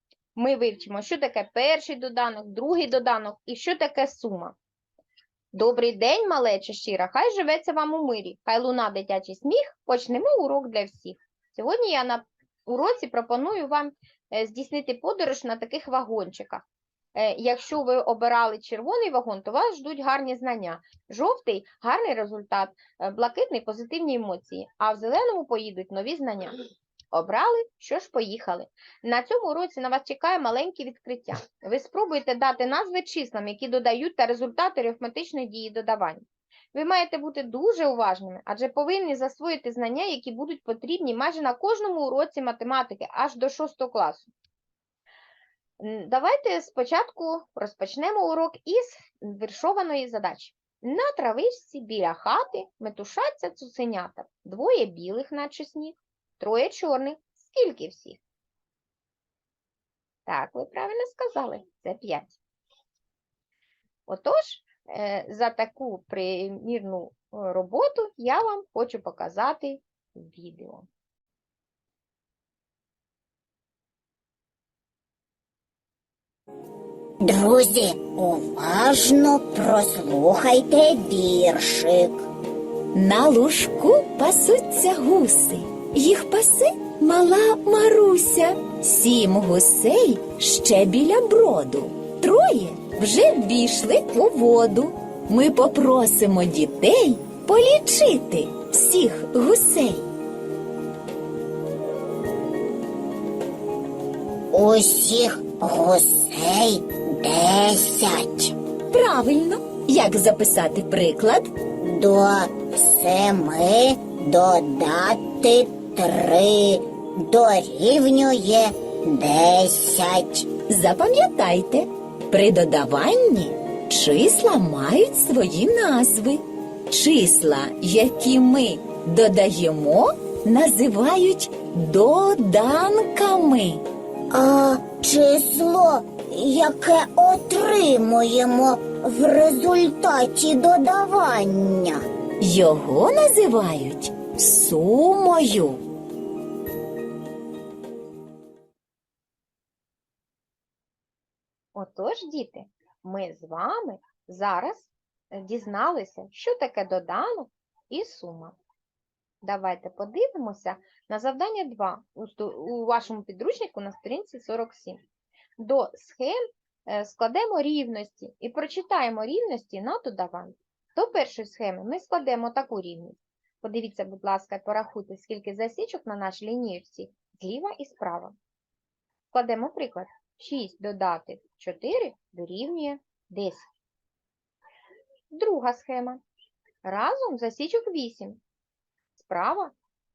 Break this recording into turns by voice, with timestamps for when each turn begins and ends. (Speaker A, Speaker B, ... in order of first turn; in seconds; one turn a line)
Speaker A: 0.3-4.5
Speaker A: 5.5-26.6
Speaker A: 27.1-44.3
Speaker A: 45.8-58.2
Speaker A: 60.3-62.4
Speaker A: 64.1-70.9
Speaker B: 77.2-82.2
Speaker C: 82.9-100.0
Speaker B: 104.5-108.5
Speaker C: 108.9-111.5
Speaker B: 111.8-120.5
Speaker C: 120.7-133.8
Speaker B: 134.3-142.0
Speaker C: 142.4-145.8
Speaker A: 151.7-158.6
Speaker A: 159.4-165.0
Speaker A: 165.6-178.3
Speaker A: 179.3-183.7
Speaker A: 185.3-186.2
Speaker A: 186.8-188.4
Speaker A: 189.1-189.7